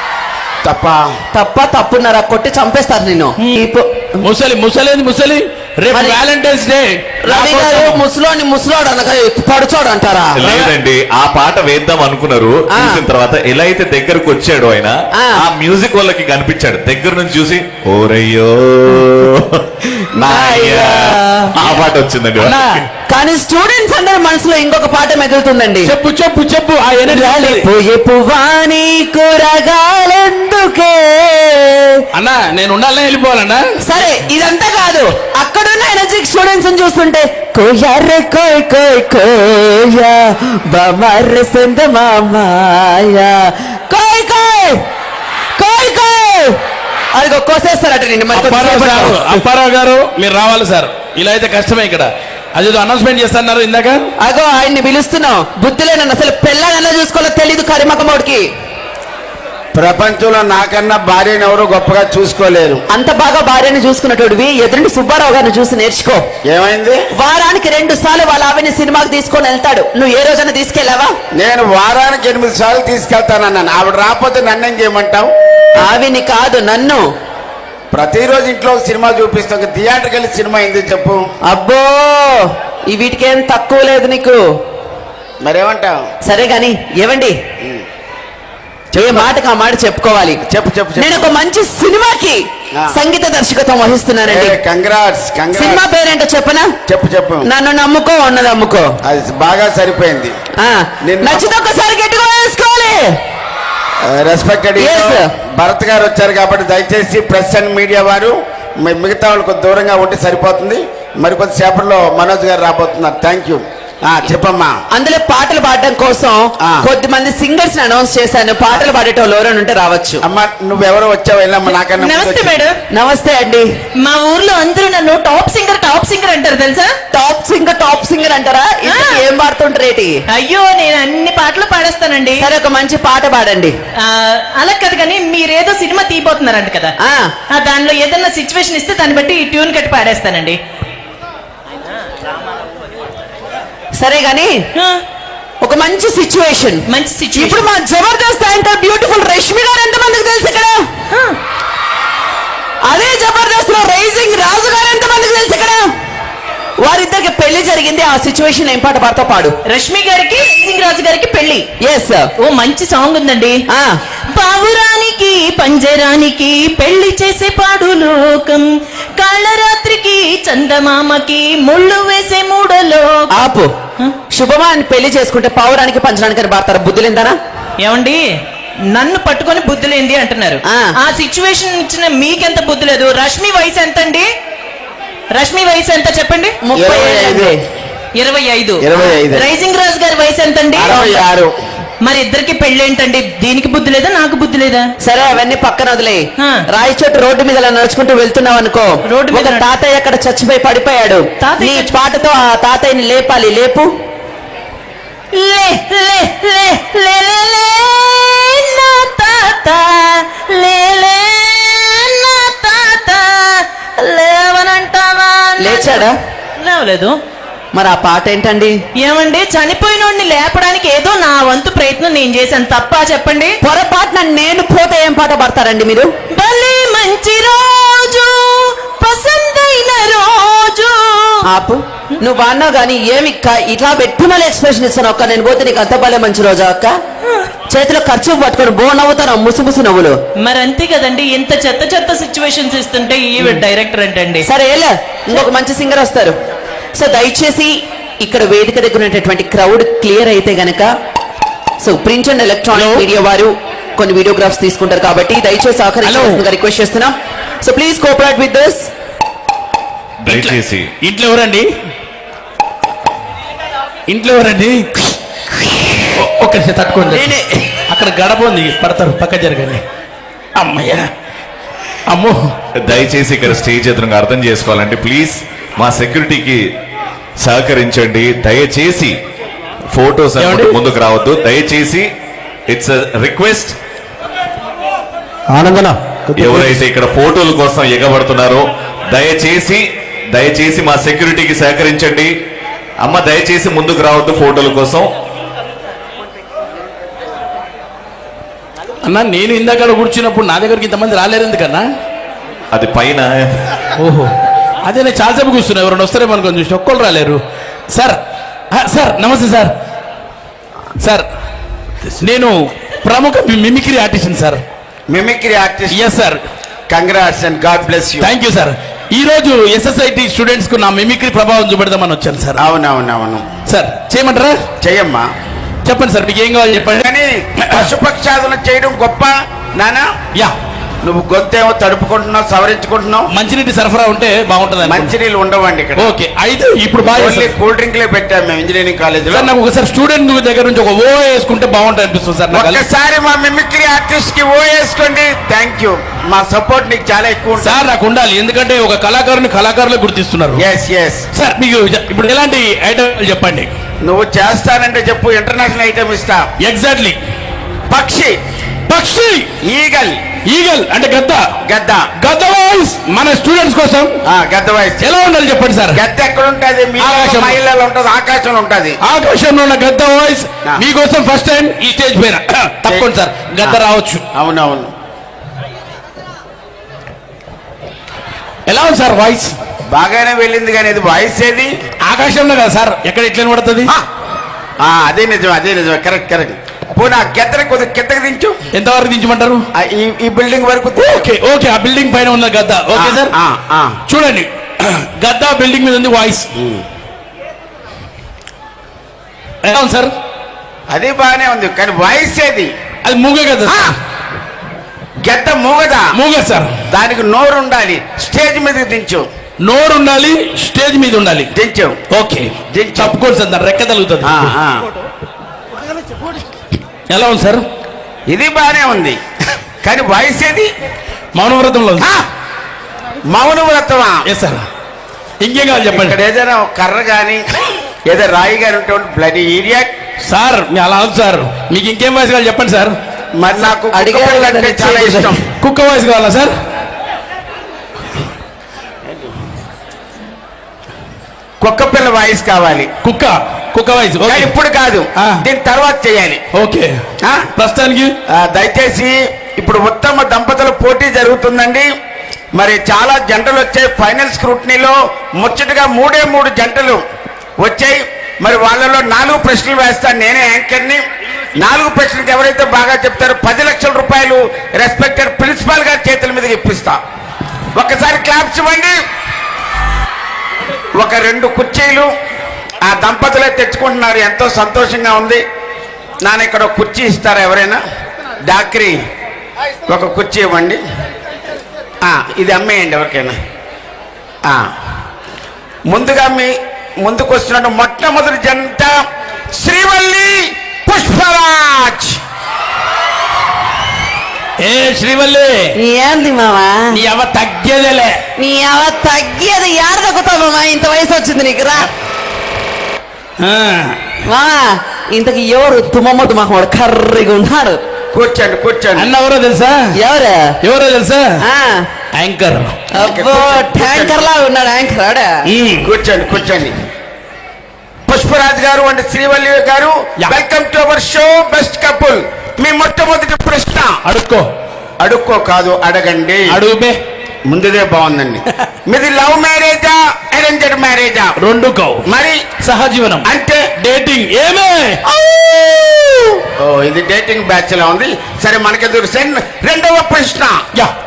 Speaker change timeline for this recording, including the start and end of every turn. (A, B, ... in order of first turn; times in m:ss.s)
0:00.6-0:01.1 A
0:01.3-0:04.1 B
0:04.2-0:08.0 C
0:05.9-0:06.2 B
0:07.2-0:10.7 B
0:10.4-0:22.6 D
0:12.7-0:13.0 B
0:15.2-0:15.5 B
0:20.2-0:21.5 B
0:22.4-0:22.8 C
0:23.1-0:25.9 B
0:25.8-0:27.7 C
0:27.1-0:32.0 B
0:32.1-0:33.6 C
0:33.8-0:44.8 B
0:45.6-0:46.6 B
0:47.2-0:49.4 B
0:48.3-0:54.0 C
0:54.2-0:58.5 B
0:59.7-1:02.8 A
1:02.9-1:06.2 B
1:06.5-1:07.1 A
1:07.1-1:11.1 B
1:11.3-1:15.3 A
1:15.8-1:17.0 B
1:17.9-1:21.2 A
1:21.5-1:24.4 B
1:25.4-1:26.0 A
1:26.3-1:27.4 B
1:29.0-1:29.3 A
1:29.0-1:30.4 B
1:30.5-1:31.3 A
1:31.0-1:34.6 B
1:34.3-1:35.8 A
1:35.5-1:36.7 B
1:36.9-1:37.5 A
1:37.4-1:38.9 B
1:39.0-1:40.4 A
1:40.6-1:43.1 B
1:41.0-1:41.5 A
1:44.0-1:54.8 A
1:44.8-1:45.3 B
1:54.9-2:00.2 B
2:00.2-2:02.6 A
2:01.7-2:02.8 E
2:02.9-2:03.7 B
2:04.0-2:06.9 E
2:07.1-2:10.2 B
2:08.9-2:09.2 E
2:10.3-2:12.5 E
2:12.4-2:13.7 B
2:14.0-2:16.9 E
2:17.0-2:17.3 B
2:17.5-2:20.6 E
2:24.0-2:24.6 B
2:24.8-2:25.0 E
2:25.6-2:26.8 B
2:26.9-2:27.6 E
2:27.4-2:30.8 B
2:31.1-2:31.4 E
2:32.9-2:35.9 B
2:36.8-2:39.6 B
2:39.7-2:41.7 E
2:41.8-2:42.3 B
2:42.4-2:43.6 E
2:44.3-2:53.3 E
2:53.4-2:53.7 B
2:54.3-2:57.4 B
2:57.8-2:58.2 E
2:58.9-3:04.3 E
3:05.4-3:06.6 E
3:06.6-3:07.6 B
3:06.8-3:07.6 A
3:08.2-3:11.1 E
3:08.8-3:09.5 A
3:10.8-3:11.5 A
3:12.0-3:14.9 E
3:15.0-3:23.9 B
3:19.1-3:19.7 E
3:21.4-3:21.9 E
3:25.3-3:37.2 E
3:35.6-3:36.2 B
3:37.7-3:38.8 B
3:39.0-3:43.6 E
3:43.6-3:46.1 B
3:46.3-3:51.4 E
3:51.5-3:57.0 B
3:57.7-4:00.2 B
4:00.4-4:04.5 E
4:04.4-4:06.4 B
4:07.0-4:10.9 B
4:11.8-4:18.9 B
4:12.7-4:13.0 C
4:16.0-4:16.4 C
4:20.2-4:20.9 D
4:20.3-4:21.7 C
4:24.1-4:25.1 C
4:26.0-4:29.8 C
4:27.1-4:27.7 B
4:30.6-4:31.1 C
4:32.1-4:32.4 C
4:32.8-4:36.6 D
4:37.4-4:39.2 D
4:39.9-4:42.1 D
4:40.4-4:40.8 C
4:42.7-4:43.8 D
4:45.5-4:46.7 C
4:46.4-4:52.3 D
4:53.0-4:55.1 D
4:59.0-5:01.9 C
5:02.7-5:03.7 D
5:04.0-5:04.3 C
5:04.9-5:08.2 C
5:08.7-5:09.7 C
5:11.0-5:11.3 C
5:12.0-5:14.6 C
5:15.1-5:16.0 A
5:15.9-5:16.4 C
5:16.9-5:18.3 A
5:18.2-5:22.6 C
5:22.6-5:23.5 A
5:23.7-5:24.6 C
5:24.8-5:25.3 A
5:25.8-5:27.1 C
5:27.0-5:30.1 A
5:31.0-5:33.3 A
5:33.3-5:35.1 C
5:34.8-5:36.1 A
5:36.0-5:37.5 C
5:37.1-5:39.5 A
5:39.3-5:42.8 C
5:42.5-5:47.8 A
5:47.6-5:50.6 C
5:50.6-5:51.3 A
5:51.4-5:53.7 C
5:54.0-5:56.5 A
5:56.6-5:57.2 C
5:57.9-5:58.4 A
5:58.9-5:59.5 C
5:59.6-6:00.2 A
6:00.5-6:01.4 C
6:01.7-6:02.1 A
6:02.2-6:04.1 C
6:04.3-6:05.0 A
6:05.0-6:06.0 C
6:05.9-6:09.0 A
6:07.0-6:07.6 C
6:09.0-6:14.2 C
6:14.3-6:14.9 A
6:18.7-6:19.6 C
6:19.9-6:21.7 A
6:22.0-6:23.9 C
6:24.8-6:28.6 A
6:28.7-6:29.6 C
6:29.7-6:31.3 A
6:31.0-6:33.3 C
6:32.9-6:34.0 A
6:34.1-6:36.5 C
6:36.6-6:36.8 A
6:39.6-6:40.1 C
6:40.9-6:42.7 A
6:43.0-6:43.9 C
6:43.7-6:44.0 A
6:45.2-6:46.1 A
6:46.1-6:46.7 C
6:46.9-6:49.3 A
6:49.6-6:51.5 C
6:51.5-6:52.0 A
6:52.1-6:54.5 C
6:52.7-6:53.2 A
6:54.2-6:54.9 A
6:57.1-6:57.7 C
6:58.3-6:59.2 A
6:59.8-7:00.7 A
7:01.4-7:02.1 C
7:03.3-7:04.3 A
7:04.3-7:04.7 C
7:05.4-7:06.2 C
7:05.9-7:07.5 A
7:08.1-7:09.9 A
7:10.2-7:13.0 C
7:13.4-7:15.4 A
7:13.6-7:15.4 B
7:15.6-7:16.6 C
7:21.6-7:22.9 A
7:23.0-7:24.5 C
7:24.2-7:26.4 A
7:26.5-7:27.0 C
7:27.6-7:28.1 C
7:28.3-7:31.9 A
7:32.6-7:37.0 A
7:37.6-7:41.0 A
7:41.6-7:47.0 A
7:47.8-7:49.0 A
7:51.0-7:52.1 A
7:52.8-7:55.4 A
7:56.2-7:57.8 A
7:58.4-7:59.0 A
7:59.9-8:00.8 A
8:02.1-8:03.4 A
8:05.9-8:09.0 A
8:09.6-8:12.2 A
8:14.6-8:15.7 C
8:15.8-8:17.0 B
8:16.9-8:18.2 C
8:18.4-8:21.9 B
8:23.4-8:24.2 C
8:24.3-8:27.8 B
8:28.1-8:29.1 A
8:29.0-8:29.8 C
8:30.0-8:30.6 B
8:30.6-8:31.3 C
8:31.4-8:31.9 B
8:32.2-8:32.8 C
8:33.0-8:35.3 B
8:33.0-8:34.3 A
8:35.5-8:35.9 C
8:35.8-8:36.8 A
8:38.1-8:44.0 A
8:44.1-8:44.5 C
8:45.0-8:46.5 A
8:46.5-8:47.0 C
8:47.5-8:51.4 A
8:51.4-8:52.0 C
8:52.0-8:52.4 A
8:52.6-8:56.4 C
8:53.2-8:53.7 A
8:56.6-9:00.6 A